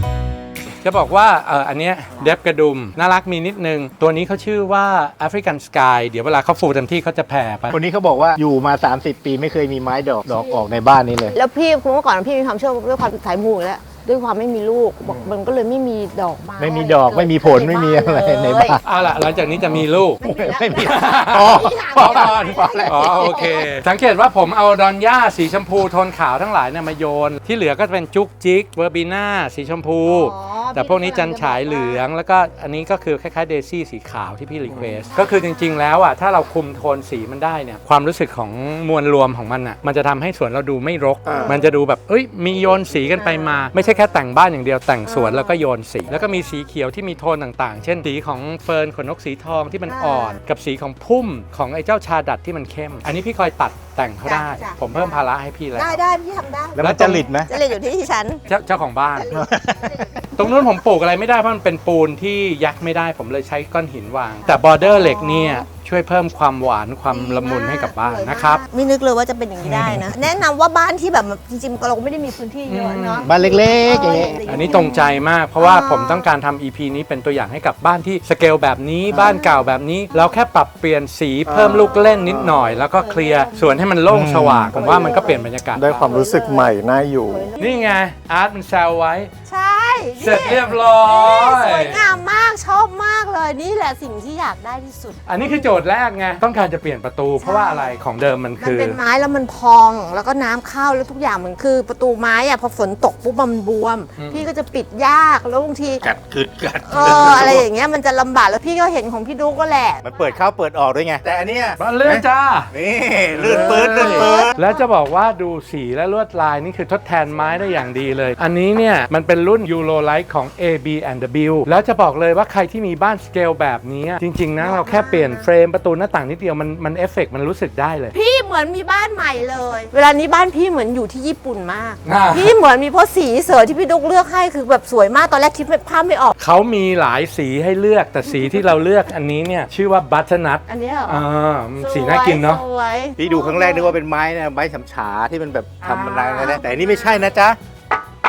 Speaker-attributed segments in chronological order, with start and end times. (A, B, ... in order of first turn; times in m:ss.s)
0:00.8-0:07.8 A
0:07.7-0:11.3 B
0:11.3-0:18.8 C
0:16.6-0:18.8 B
0:18.8-0:20.2 A
0:20.2-0:23.7 C
0:20.2-0:23.2 B
0:20.7-0:56.0 A
0:30.1-0:32.0 C
0:34.7-0:35.8 C
0:41.3-0:41.6 C
0:43.2-0:43.7 C
0:45.0-0:45.6 C
0:49.9-0:50.4 C
0:54.2-0:56.8 C
0:56.8-0:57.5 B
0:56.8-0:57.2 A
0:57.4-0:58.4 C
0:58.5-0:59.3 A
0:59.2-1:00.7 C
0:59.3-1:00.2 B
1:00.4-1:08.6 A
1:04.4-1:05.6 C
1:07.1-1:16.3 C
1:12.7-1:13.3 A
1:13.2-1:14.4 B
1:13.8-1:26.1 A
1:19.1-1:20.3 C
1:21.5-1:21.8 D
1:21.6-1:23.8 C
1:24.1-1:24.8 B
1:24.7-1:25.4 C
1:25.7-1:27.5 D
1:26.0-1:26.7 C
1:27.3-1:28.0 C
1:27.6-1:29.3 A
1:29.5-1:35.6 C
1:30.2-1:32.1 A
1:35.3-1:39.0 A
1:37.4-1:37.9 C
1:38.6-1:46.0 C
1:44.2-1:44.4 A
1:46.0-1:47.6 B
1:46.8-1:50.3 C
1:50.0-1:54.5 B
1:51.8-1:52.7 A
1:53.3-2:08.1 A
1:53.6-1:54.8 C
2:04.6-2:05.5 C
2:08.1-2:16.3 C
2:12.0-2:12.5 A
2:16.4-2:22.6 A
2:20.7-2:21.2 C
2:21.8-2:24.0 C
2:23.2-2:27.6 B
2:25.8-2:26.6 A
2:26.3-2:26.9 C